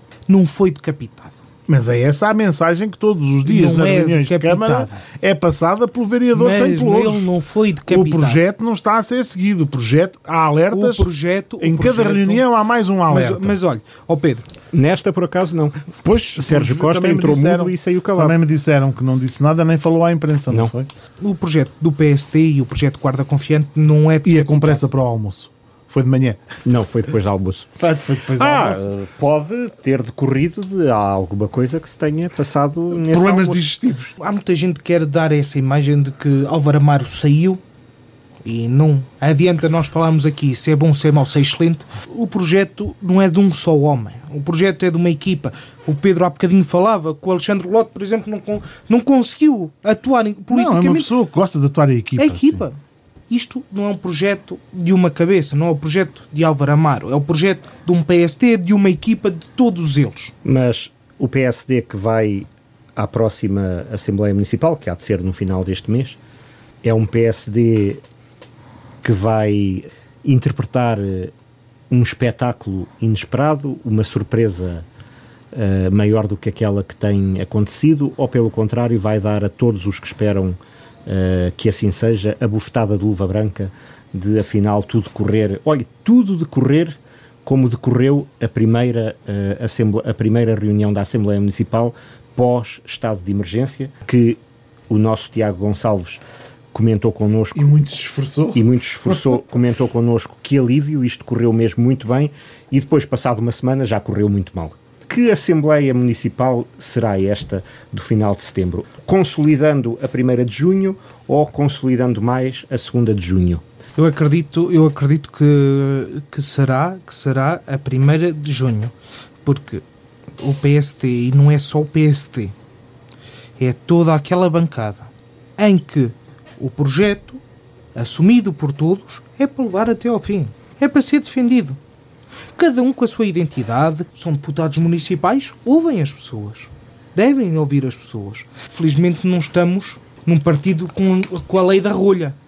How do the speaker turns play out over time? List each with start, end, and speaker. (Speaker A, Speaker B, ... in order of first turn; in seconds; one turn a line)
Speaker A: 0.3-1.4
Speaker B: 1.7-7.3
Speaker A: 3.5-5.0
Speaker A: 6.3-8.4
Speaker B: 7.9-11.1
Speaker A: 10.7-12.5
Speaker B: 11.6-13.6
Speaker A: 13.1-14.5
Speaker C: 14.7-18.4
Speaker B: 16.0-20.9
Speaker A: 21.2-24.8
Speaker B: 24.2-26.4
Speaker C: 26.7-27.7
Speaker B: 27.8-28.9
Speaker C: 28.4-33.6
Speaker B: 32.9-34.1
Speaker A: 34.2-37.6
Speaker A: 38.4-51.1
Speaker B: 50.5-52.6
Speaker A: 52.2-52.8
Speaker A: 53.3-60.3
Speaker C: 60.4-66.2
Speaker C: 66.8-68.0
Speaker C: 69.0-71.3
Speaker C: 71.9-74.9
Speaker C: 75.5-97.7
Speaker B: 97.5-99.2
Speaker C: 98.5-113.6
Speaker A: 114.0-118.9
Speaker A: 119.4-119.8
Speaker A: 120.4-122.5
Speaker A: 123.6-127.4
Speaker A: 128.0-131.8
Speaker A: 132.6-142.4